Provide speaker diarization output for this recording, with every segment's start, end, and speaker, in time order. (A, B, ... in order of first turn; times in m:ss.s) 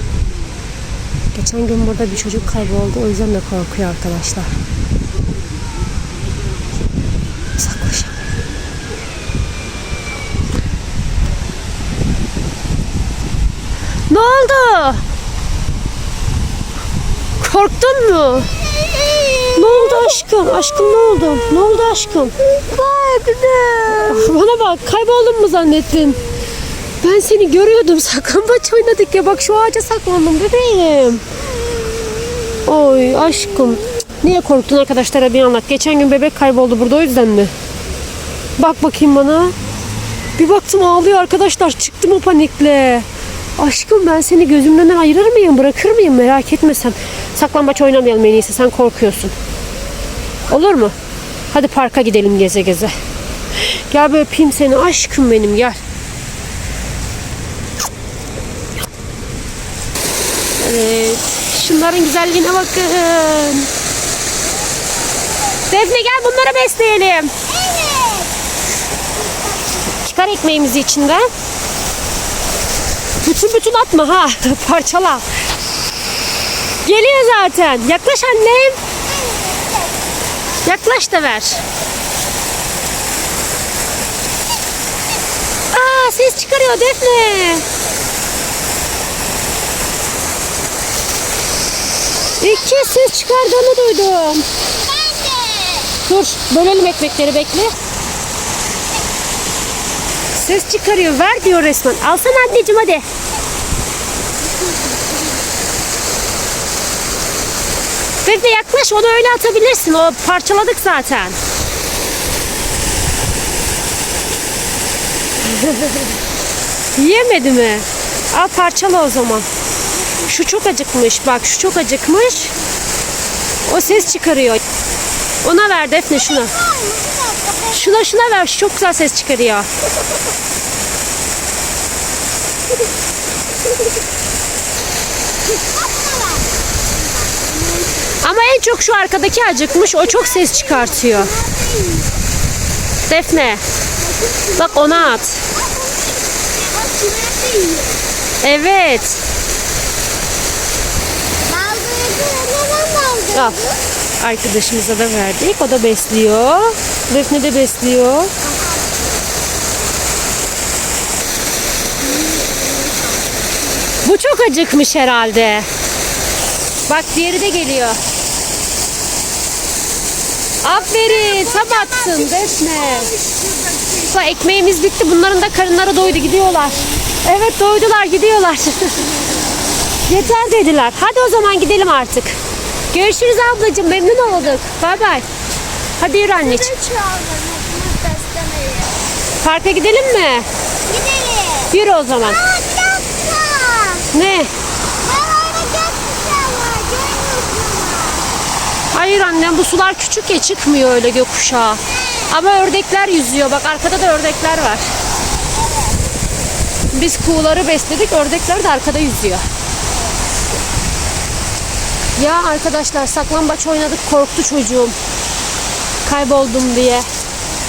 0:01.4-0:04.5 A
0:07.6-0:08.2 A
0:14.1-0:15.0 A
0:17.4-0:18.5 A
0:18.4-0:20.2 B
0:19.6-0:26.3 A
0:27.0-0:31.2 A
0:31.6-0:33.3 B
0:32.7-0:37.5 A
0:38.6-0:39.5 A
0:40.4-0:43.1 A
0:43.6-0:49.3 A
0:50.5-0:51.0 A
0:51.5-0:52.9 A
0:53.6-0:55.8 A
1:00.6-1:03.7 A
1:04.5-1:05.7 B
1:05.7-1:07.3 A
1:07.5-1:08.3 B
1:09.1-1:09.9 B
1:10.0-1:11.3 A
1:13.2-1:15.2 A
1:16.8-1:18.8 A
1:19.0-1:20.0 B
1:20.6-1:21.6 A
1:25.7-1:27.6 A
1:32.4-1:34.4 A
1:32.4-1:33.0 B
1:34.6-1:36.0 B
1:36.1-1:37.7 A
1:40.4-1:43.0 A
1:48.2-1:51.4 A
1:55.6-1:56.0 A
1:57.0-1:59.5 A
2:00.2-2:02.6 A
2:03.7-2:04.6 A
2:05.4-2:06.5 A
2:06.1-2:08.1 B
2:07.7-2:09.7 A
2:15.5-2:18.2 B
2:18.2-2:21.3 A
2:19.7-2:22.3 B
2:23.1-2:23.6 A
2:24.0-2:28.1 B
2:24.6-2:25.4 A
2:28.4-2:29.2 A
2:31.4-2:33.8 B
2:34.2-2:38.3 A
2:38.4-2:39.2 B
2:42.2-2:43.2 B
2:44.0-2:45.7 A
2:46.9-2:48.0 A
2:50.6-2:53.1 A
2:50.7-2:54.1 B
2:54.1-2:59.1 A
3:00.1-3:02.4 A
3:02.9-3:05.3 A
3:06.0-3:06.7 A
3:06.4-3:09.0 B
3:09.4-3:10.5 A
3:10.9-3:14.1 B
3:11.7-3:12.4 A
3:14.1-3:14.5 A
3:15.0-3:18.3 B
3:18.9-3:24.8 A
3:21.6-3:22.4 B
3:25.5-3:26.1 B
3:26.9-3:29.4 A
3:29.9-3:30.2 B
3:32.2-3:35.0 A
3:36.0-3:37.1 A